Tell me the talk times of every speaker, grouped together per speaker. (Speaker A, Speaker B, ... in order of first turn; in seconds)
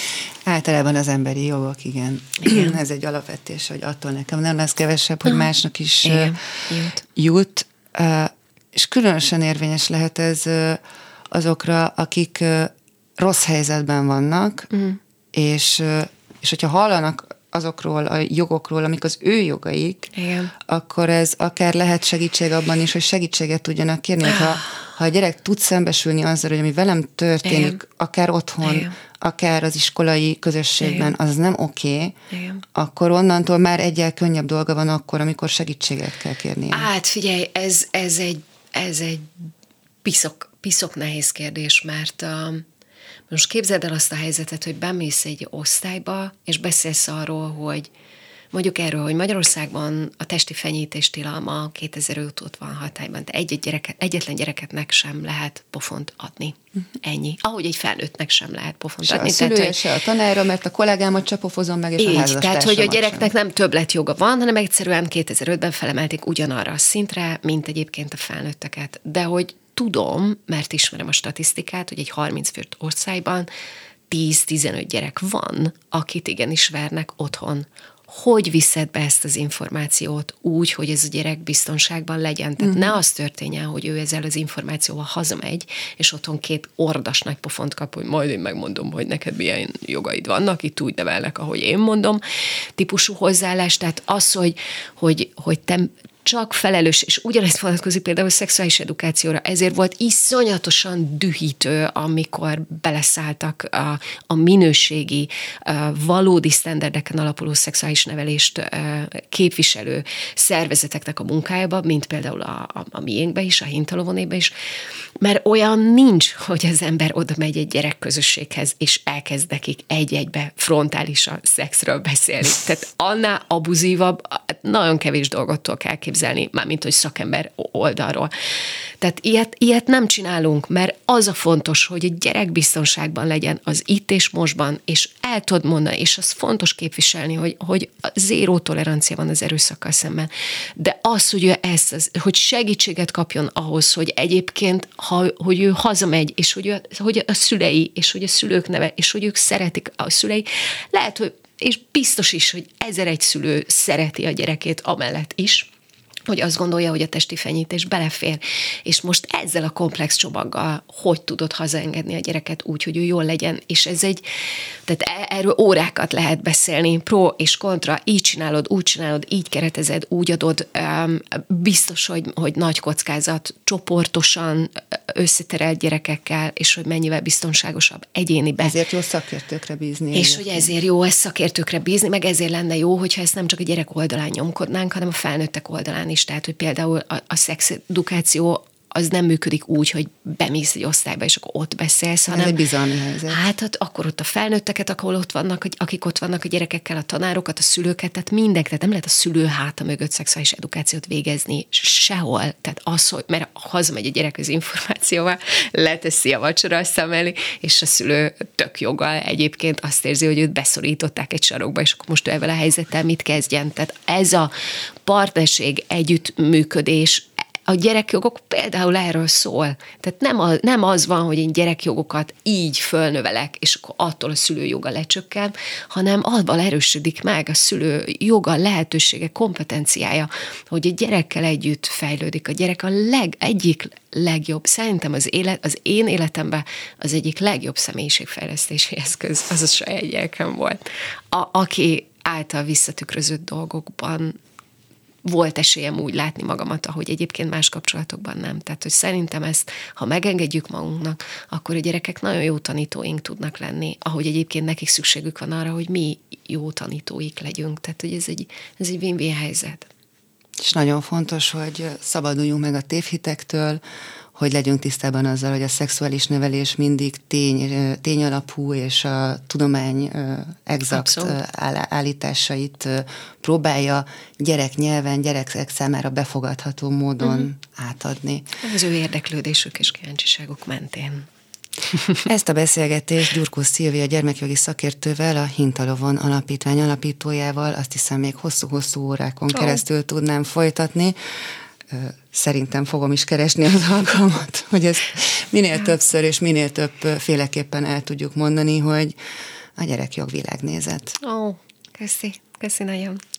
Speaker A: 0.4-6.4, 7.0-14.7, 15.3-32.1, 32.7-36.9, 59.0-63.3, 82.6-82.9, 178.6-180.7, 192.3-193.4, 260.6-263.8, 264.3-278.6, 282.2-291.1, 291.9-299.1, 299.8-301.2
Speaker B: 2.4-2.7, 6.0-7.0, 14.7-15.0, 20.1-20.5, 24.2-24.6, 27.4-27.8, 28.6-28.9, 30.8-31.1, 32.3-32.6, 36.7-39.5, 40.0-42.6, 43.3-47.9, 48.5-59.8, 62.0-73.5, 74.1-92.2, 92.8-114.5, 115.2-128.3, 129.0-155.7, 156.3-164.2, 164.8-178.7, 180.1-192.6, 193.3-214.5, 215.0-244.4, 245.2-259.9, 270.9-271.4, 278.6-281.3, 301.2-303.2